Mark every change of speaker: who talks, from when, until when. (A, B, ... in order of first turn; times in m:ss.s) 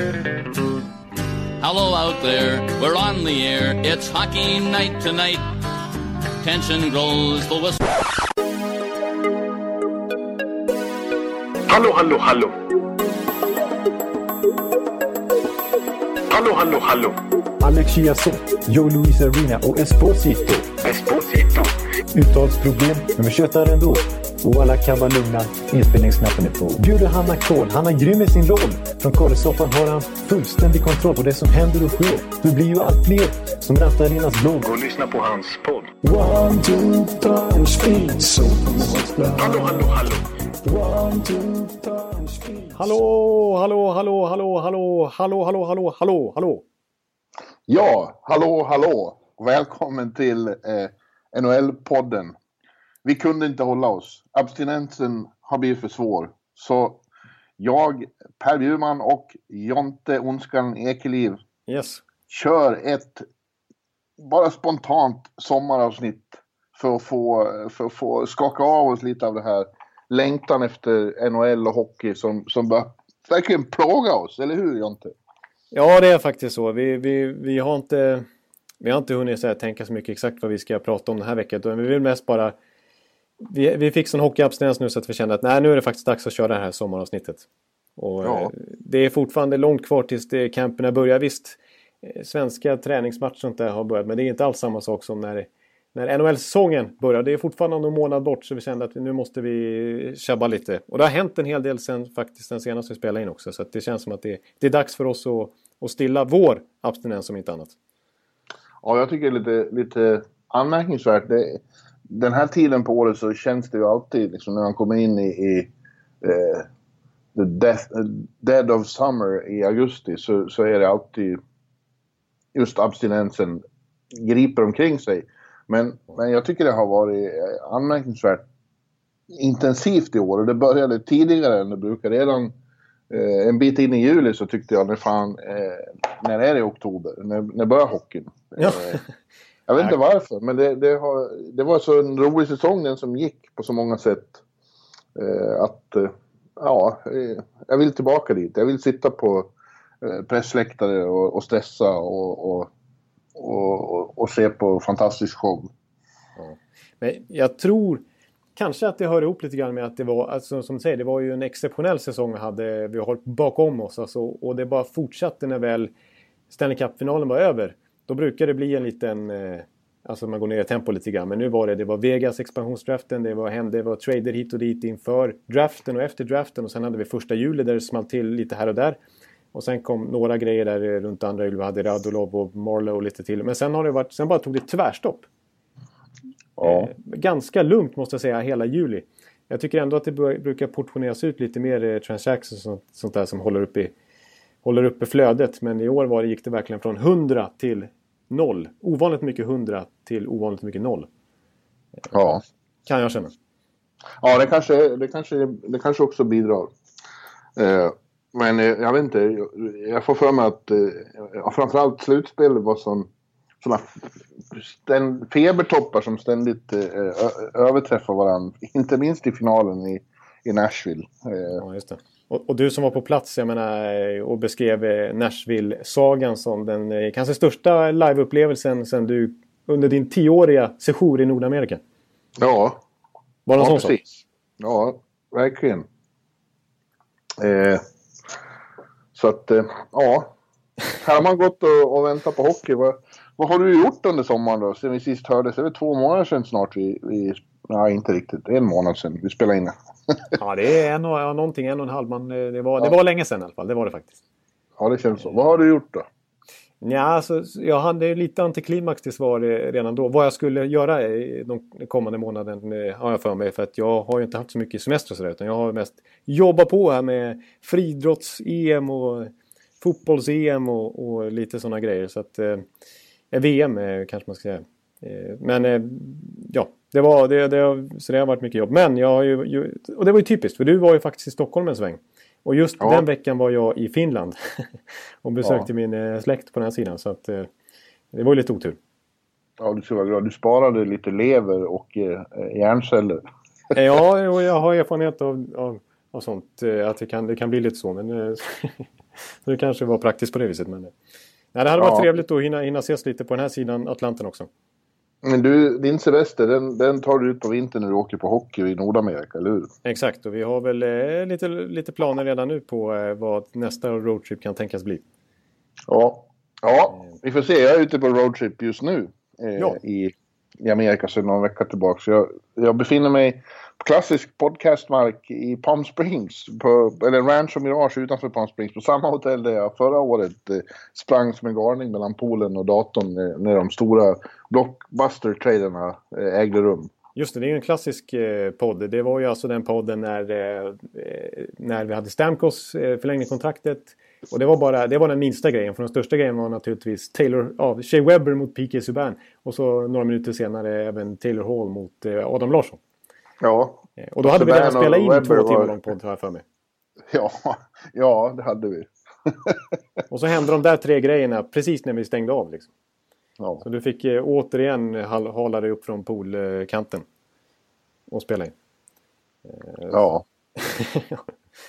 0:01.6-0:05.5 A
0:06.4-0:07.8 A
0:11.7-0:12.6 B
0:16.3-0:17.2 B
0:17.6-0:20.8 C
0:17.8-0:18.1 D
0:18.9-0:20.1 D
0:20.8-0:21.7 B
0:22.2-0:23.7 C
0:22.4-0:33.2 D
0:24.5-0:35.2 C
0:33.9-0:36.3 D
0:36.0-0:39.9 C
0:38.9-0:39.8 D
0:39.4-0:40.2 B
0:40.6-0:42.7 C
0:42.7-0:46.6 D
0:47.7-0:52.3 E
0:53.0-0:57.0 E
0:57.6-1:01.4 E
1:01.7-1:02.0 D
1:02.3-1:03.2 E
1:04.2-1:15.1 E
1:15.7-1:18.2 D
1:18.8-1:22.5 D
1:23.4-1:27.4 D
1:28.0-1:47.7 D
1:28.2-1:28.5 E
1:48.8-1:55.7 E
1:56.2-1:56.7 E
1:57.3-2:01.4 E
2:02.5-2:08.4 E
2:09.3-2:12.5 E
2:13.1-2:19.0 E
2:18.6-2:19.1 D
2:19.7-2:24.4 E
2:25.2-2:32.7 E
2:33.3-2:35.7 E
2:36.4-2:38.0 D
2:38.6-2:45.9 D
2:46.5-2:59.0 D
2:59.5-3:05.3 D
3:06.6-3:06.9 E
3:06.6-3:13.9 D
3:14.6-3:21.1 D
3:22.1-3:22.4 E
3:22.8-3:23.3 D
3:24.2-3:26.7 E
3:27.6-3:33.1 E
3:33.6-3:41.6 E
3:41.6-3:51.8 D
3:52.4-3:52.8 E
3:53.4-3:54.0 D
3:53.6-3:55.8 E
3:57.4-3:57.8 E
3:59.1-4:00.3 E
4:01.0-4:10.3 E
4:10.4-4:14.2 D
4:14.8-4:16.0 E
4:16.8-4:32.6 D
4:33.3-4:44.6 D
4:42.8-4:43.0 E
4:45.2-4:47.5 D
4:48.1-4:48.8 D
4:49.6-4:53.2 E
4:53.7-4:58.9 D
4:59.4-5:00.9 D
5:01.5-5:04.5 D
5:01.8-5:02.1 E
5:05.2-5:09.7 E
5:09.8-5:15.0 D
5:15.9-5:36.9 E
5:37.2-5:52.8 D
5:53.4-5:55.8 E
5:54.0-5:56.4 D
5:57.1-5:59.6 E
6:00.1-6:02.7 D
6:03.4-6:03.6 E
6:03.6-6:07.0 D
6:08.1-6:08.5 D
6:09.4-6:10.0 D
6:09.9-6:10.2 E
6:10.6-6:11.2 D